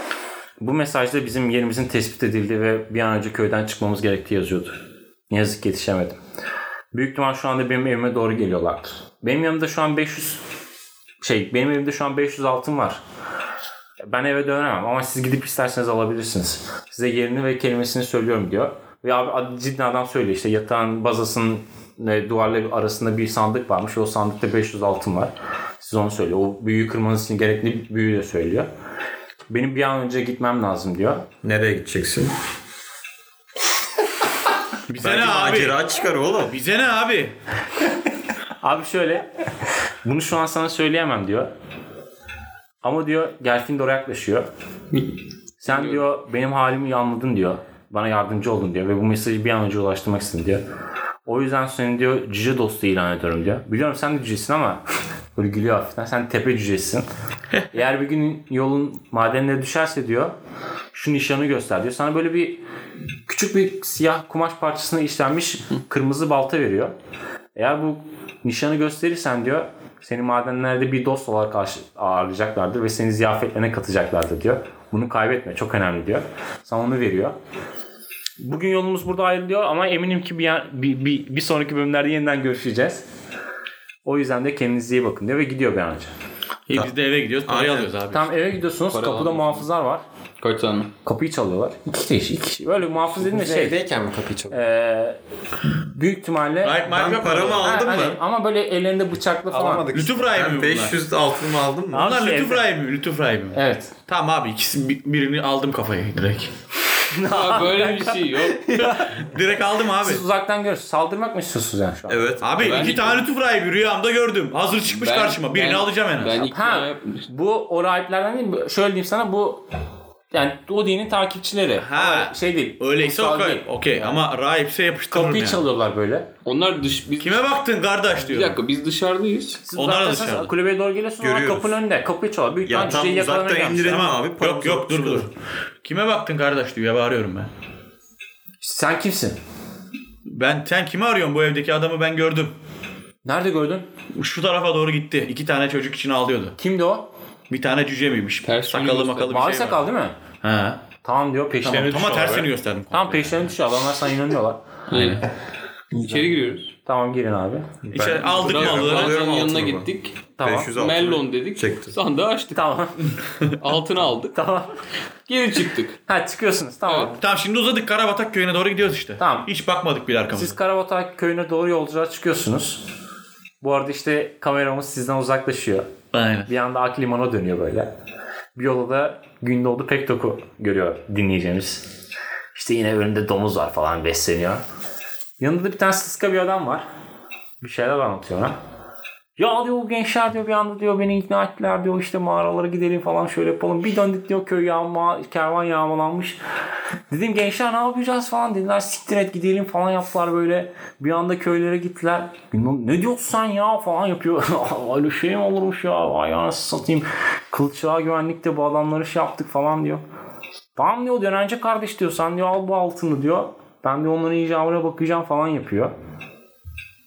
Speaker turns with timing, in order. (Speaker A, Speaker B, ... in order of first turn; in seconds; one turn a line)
Speaker A: 0.6-4.8
Speaker A: 5.3-6.2
Speaker A: 6.9-10.4
Speaker A: 11.2-13.0
Speaker A: 14.1-28.7
Speaker A: 29.5-31.3
Speaker B: 31.4-32.3
Speaker C: 34.9-35.8
Speaker B: 35.0-36.5
Speaker C: 36.4-37.3
Speaker A: 38.6-39.3
Speaker A: 40.0-41.5
Speaker A: 42.8-44.5
Speaker A: 45.6-50.6
Speaker D: 45.7-46.0
Speaker A: 51.2-54.8
Speaker A: 55.4-57.1
Speaker A: 57.7-60.3
Speaker A: 60.9-62.6
Speaker A: 63.3-66.9
Speaker A: 67.5-77.3
Speaker A: 78.4-83.0
Speaker A: 84.0-86.1
Speaker C: 86.7-88.3
Speaker B: 87.4-87.9
Speaker A: 88.1-90.0
Speaker D: 88.9-89.7
Speaker D: 90.4-90.9
Speaker A: 91.0-93.8
Speaker E: 93.1-94.6
Speaker A: 94.5-95.2
Speaker A: 95.8-96.8
Speaker C: 96.6-97.7
Speaker B: 96.8-98.2
Speaker A: 97.5-99.9
Speaker E: 99.5-100.4
Speaker C: 99.9-101.0
Speaker B: 100.3-102.1
Speaker A: 101.9-102.6
Speaker C: 102.0-106.5
Speaker A: 103.5-103.9
Speaker A: 107.1-109.3
Speaker D: 107.2-108.6
Speaker C: 108.8-110.2
Speaker A: 110.0-112.2
Speaker B: 112.1-113.0
Speaker C: 112.4-116.4
Speaker D: 112.6-113.3
Speaker D: 114.9-117.2
Speaker A: 116.5-119.6
Speaker A: 120.3-124.2
Speaker C: 121.8-125.6
Speaker A: 125.1-126.3
Speaker D: 126.4-127.5
Speaker C: 127.2-128.6
Speaker D: 128.2-129.6
Speaker A: 129.7-134.0
Speaker C: 129.7-130.5
Speaker B: 131.2-131.7
Speaker B: 132.7-135.3
Speaker C: 133.8-135.3
Speaker C: 135.8-137.5
Speaker A: 138.6-139.4
Speaker C: 140.3-142.6
Speaker A: 143.2-143.9
Speaker C: 144.1-146.6
Speaker A: 146.6-147.1
Speaker C: 147.5-149.8
Speaker D: 148.4-149.4
Speaker A: 149.3-150.2
Speaker C: 150.4-150.9
Speaker A: 151.0-154.6
Speaker C: 151.6-153.5
Speaker D: 154.9-155.3
Speaker C: 154.9-155.2
Speaker D: 155.9-156.7
Speaker A: 156.8-157.7
Speaker B: 157.9-159.9
Speaker C: 157.9-159.2
Speaker D: 158.4-160.2
Speaker A: 160.4-160.7
Speaker B: 160.4-161.9
Speaker D: 160.7-162.6
Speaker A: 162.5-163.0
Speaker D: 163.6-164.3
Speaker A: 164.3-164.7
Speaker D: 165.3-166.0
Speaker A: 166.1-167.2
Speaker D: 166.9-167.1
Speaker C: 167.2-170.6
Speaker A: 169.2-169.5
Speaker A: 170.3-172.8
Speaker A: 173.6-175.9
Speaker C: 176.1-176.5
Speaker A: 176.5-177.9
Speaker A: 178.6-181.9
Speaker A: 182.5-184.6
Speaker A: 185.4-186.8
Speaker A: 187.6-188.6
Speaker A: 189.4-196.4
Speaker A: 197.1-210.0
Speaker A: 210.8-215.9